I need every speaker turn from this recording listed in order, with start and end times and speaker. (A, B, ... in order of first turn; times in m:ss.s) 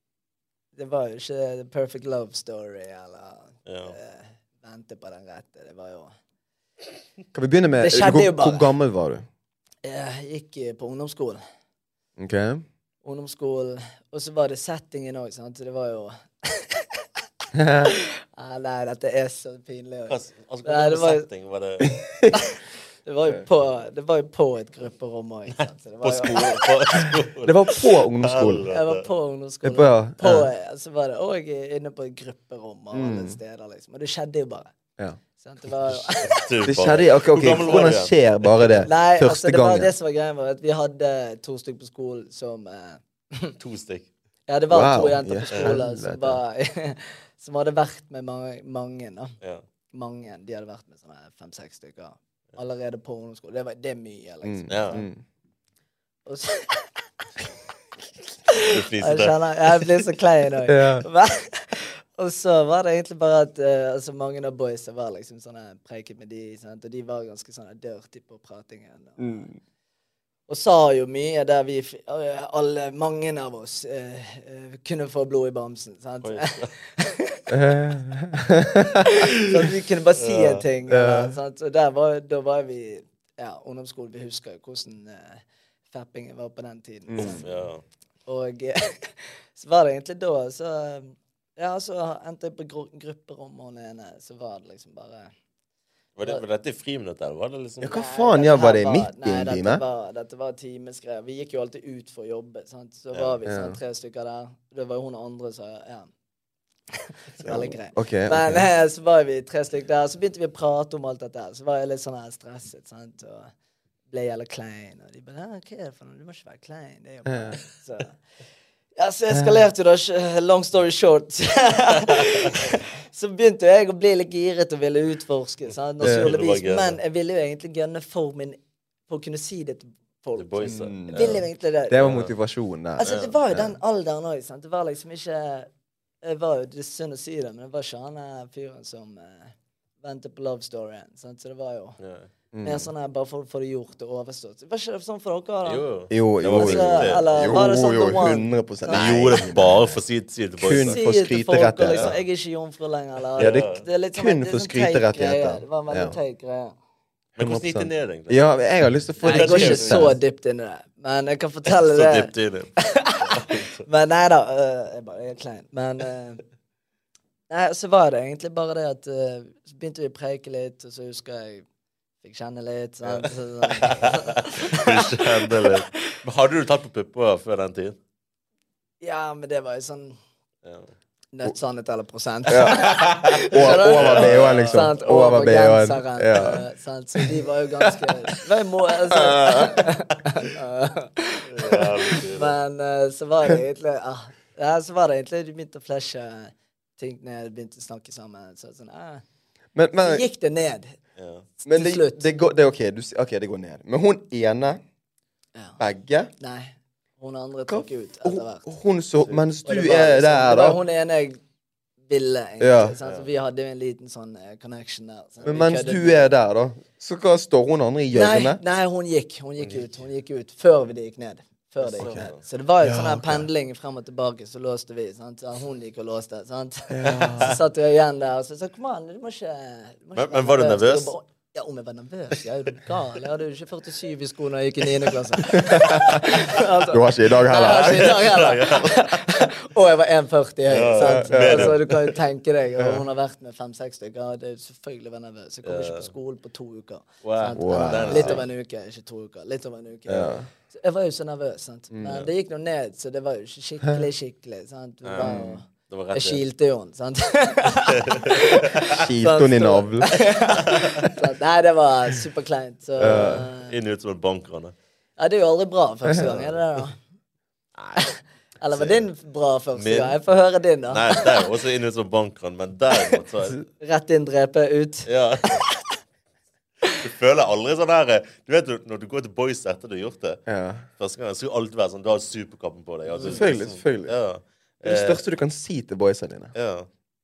0:00.8-0:06.1 A
0:03.7-0:03.9 B
0:07.3-0:09.2 C
0:07.8-0:08.7 A
0:09.8-0:11.4 A
0:12.2-0:12.6 C
0:13.0-0:17.0 A
0:17.5-0:17.9 C
0:17.8-0:21.3 A
0:20.1-0:22.0 B
0:22.0-0:22.4 C
0:22.3-0:26.8 A
0:25.6-0:29.1 B
0:27.0-0:28.7 C
0:28.7-0:34.7 A
0:29.6-0:30.5 C
0:32.9-0:33.4 C
0:35.4-0:36.4 A
0:36.2-0:38.9 B
0:36.6-0:39.9 C
0:38.8-0:43.6 A
0:43.6-0:44.1 B
0:44.5-0:49.4 A
0:44.7-0:46.4 C
0:45.5-0:45.8 B
0:49.9-0:55.0 A
0:54.4-0:55.2 C
0:54.7-0:55.0 B
0:56.2-0:57.2 A
0:58.4-1:09.5 A
0:58.6-0:59.8 B
1:00.7-1:01.0 C
1:09.2-1:09.5 C
1:10.5-1:17.5 A
1:16.2-1:16.7 B
1:17.5-1:19.2 C
1:19.0-1:27.7 A
1:20.2-1:20.6 B
1:20.9-1:21.4 C
1:27.1-1:27.4 C
1:27.2-1:27.8 B
1:28.2-1:35.3 A
1:36.2-1:38.0 B
1:37.8-1:39.8 C
1:37.9-1:46.1 A
1:43.4-1:43.8 C
1:46.9-1:53.5 A
1:47.4-1:48.7 C
1:54.1-1:58.2 A
1:57.2-1:57.6 C
1:59.0-2:12.1 A
1:59.3-1:59.6 C
2:06.0-2:07.0 B
2:06.0-2:06.4 C
2:10.4-2:11.4 B
2:10.6-2:13.8 C
2:12.0-2:12.3 B
2:13.0-2:15.7 A
2:13.0-2:13.3 B
2:16.2-2:22.0 A
2:22.0-2:22.3 B
2:22.5-2:22.9 C
2:22.6-2:25.8 A
2:25.6-2:27.6 B
2:26.1-2:30.0 C
2:26.5-2:29.3 A
2:28.9-2:31.0 B
2:30.6-2:32.1 C
2:30.8-2:36.7 A
2:31.9-2:32.2 B
2:33.4-2:33.8 B
2:33.4-2:36.2 C
2:37.4-2:38.4 B
2:37.4-2:40.2 C
2:39.2-2:46.4 A
2:39.2-2:40.1 B
2:41.7-2:43.8 B
2:47.5-2:51.6 A
2:52.2-2:56.0 A
2:53.0-2:58.0 B
2:59.0-3:00.2 A
3:00.6-3:00.9 B
3:01.3-3:19.2 A
3:02.5-3:06.6 C
3:02.7-3:04.9 B
3:09.1-3:09.9 C
3:11.5-3:12.6 B
3:19.7-3:20.2 C
3:19.9-3:21.0 A
3:21.2-3:21.4 B
3:21.6-3:22.3 A
3:21.6-3:24.8 C
3:25.5-3:25.8 A
3:25.8-3:26.3 C
3:26.4-3:28.6 A
3:27.7-3:30.8 C
3:29.3-3:31.4 A
3:32.1-3:36.3 A
3:32.6-3:33.0 C
3:33.0-3:33.3 B
3:35.4-3:38.6 C
3:38.1-4:23.7 A
3:39.6-3:39.9 B
3:41.8-3:42.4 B
3:42.0-3:42.3 C
3:42.8-3:43.5 C
3:46.9-3:47.6 C
3:50.1-3:51.1 B
3:55.5-3:58.3 C
3:57.6-3:59.2 B
4:00.7-4:02.1 B
4:01.0-4:01.8 C
4:05.6-4:06.1 B
4:07.2-4:08.4 B
4:07.5-4:08.4 C
4:10.1-4:10.5 C
4:11.9-4:12.3 C
4:15.0-4:16.4 B
4:15.2-4:15.6 C
4:17.9-4:19.0 B
4:18.9-4:20.2 C
4:20.5-4:21.1 B
4:23.0-4:23.4 C
4:23.0-4:24.7 B
4:25.2-4:27.0 A
4:26.0-4:26.3 C
4:26.2-4:26.6 B
4:27.9-4:31.4 A
4:28.7-4:29.0 B
4:29.8-4:30.2 B
4:30.9-4:33.6 B
4:33.8-4:35.9 A
4:35.0-4:35.6 B
4:36.9-4:40.4 B
4:40.5-4:40.8 C
4:41.0-4:45.2 B
4:43.1-4:43.4 A
4:43.2-4:44.1 C
4:44.8-4:46.5 C
4:46.5-4:46.9 B